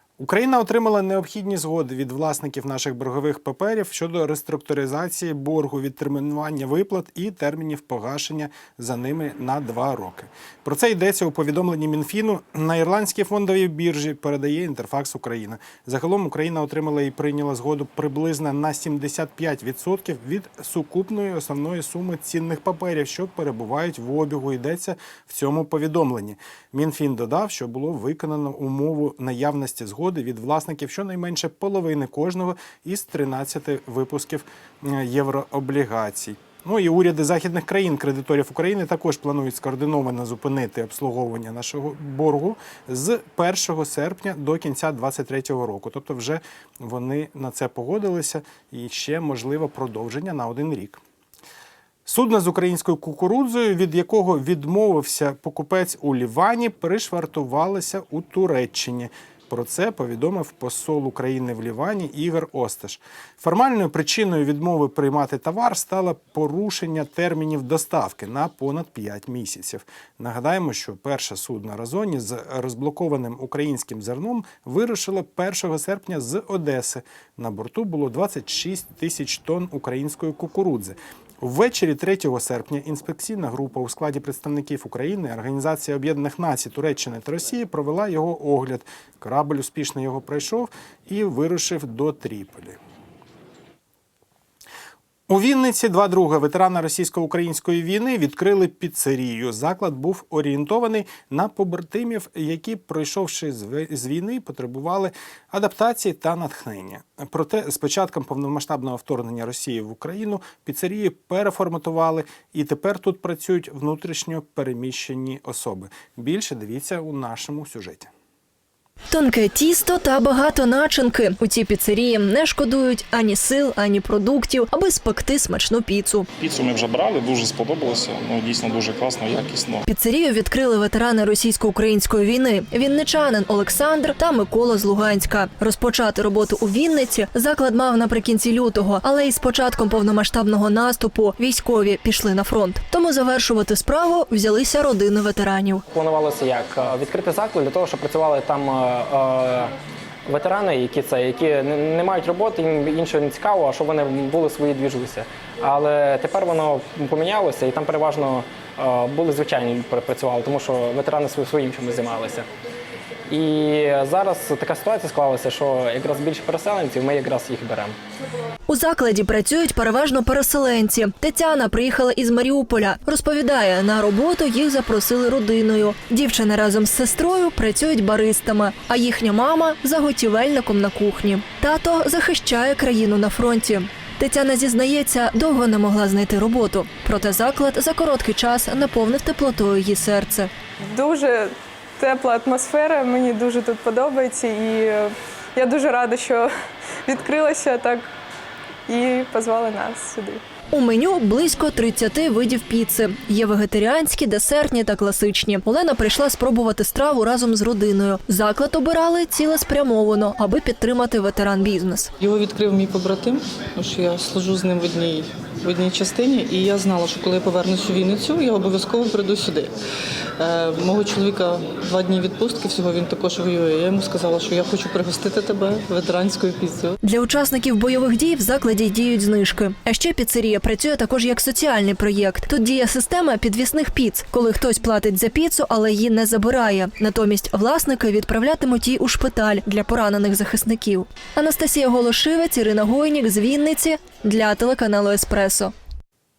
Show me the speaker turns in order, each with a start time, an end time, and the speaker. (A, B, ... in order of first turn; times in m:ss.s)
0:00.2-0:51.0 A
0:52.1-1:32.8 A
1:35.3-1:58.1 A
1:59.1-2:06.3 B
2:06.4-2:09.8 C
2:09.9-2:25.8 B
2:25.9-2:29.7 D
2:30.3-2:42.5 D
2:43.3-2:48.0 D
2:48.7-3:10.5 B
3:10.8-3:16.5 E
3:17.0-3:18.1 E
3:18.9-3:20.4 E
3:20.7-3:32.1 B
3:32.2-3:39.7 F
3:40.4-3:46.9 F
3:47.0-4:05.7 B